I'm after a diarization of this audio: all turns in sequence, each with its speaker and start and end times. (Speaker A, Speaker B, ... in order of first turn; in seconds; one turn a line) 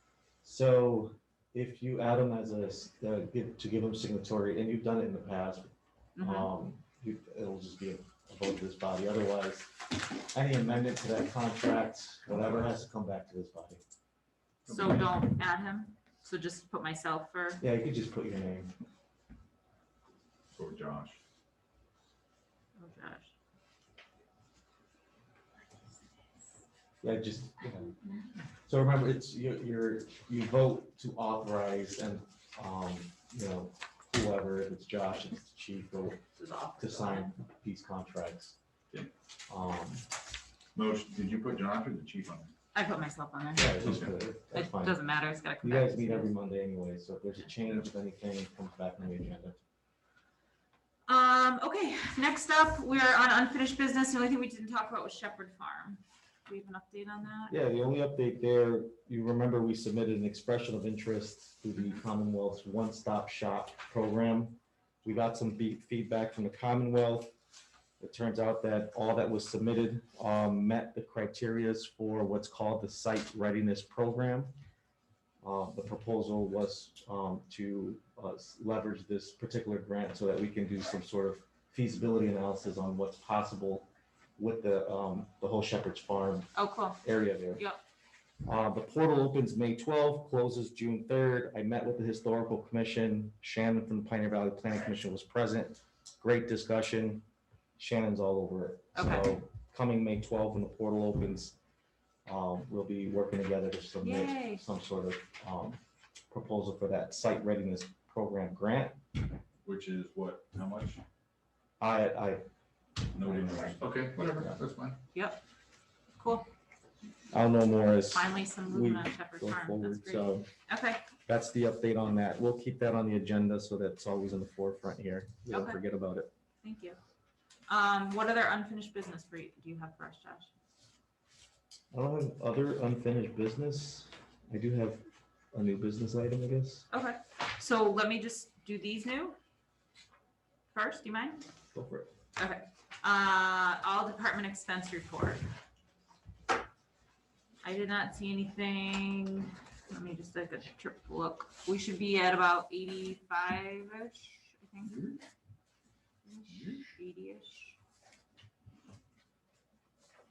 Speaker A: 0.4-13.8
Speaker B: 6.2-6.5
Speaker C: 12.3-12.7
Speaker C: 14.7-15.1
Speaker B: 14.7-17.6
Speaker A: 17.6-18.7
Speaker C: 20.5-21.2
Speaker B: 22.8-23.3
Speaker A: 27.0-27.9
Speaker A: 28.6-36.2
Speaker B: 36.3-37.3
Speaker A: 36.8-38.5
Speaker A: 39.5-40.0
Speaker C: 40.7-42.5
Speaker B: 42.7-43.8
Speaker A: 43.5-45.0
Speaker C: 43.7-44.1
Speaker B: 44.5-46.3
Speaker A: 45.6-49.6
Speaker B: 51.1-57.5
Speaker A: 57.5-67.3
Speaker A: 68.0-74.5
Speaker A: 75.4-86.5
Speaker B: 86.5-87.0
Speaker A: 87.0-87.6
Speaker A: 88.4-97.2
Speaker A: 97.8-101.6
Speaker B: 98.9-99.3
Speaker A: 102.2-105.8
Speaker B: 104.0-104.6
Speaker A: 106.3-109.0
Speaker C: 109.6-111.0
Speaker A: 111.8-112.5
Speaker A: 113.1-113.8
Speaker C: 113.1-115.0
Speaker B: 115.1-115.4
Speaker B: 116.2-116.5
Speaker A: 117.3-120.5
Speaker B: 118.1-121.0
Speaker A: 121.2-126.3
Speaker B: 125.5-125.8
Speaker B: 126.6-127.0
Speaker B: 127.7-130.5
Speaker A: 131.9-135.0
Speaker A: 135.5-136.8
Speaker B: 136.9-139.3
Speaker B: 140.7-141.4
Speaker A: 141.7-142.1
Speaker B: 142.3-145.4
Speaker B: 147.6-155.0
Speaker C: 154.8-155.2
Speaker B: 156.2-157.8
Speaker C: 156.5-156.9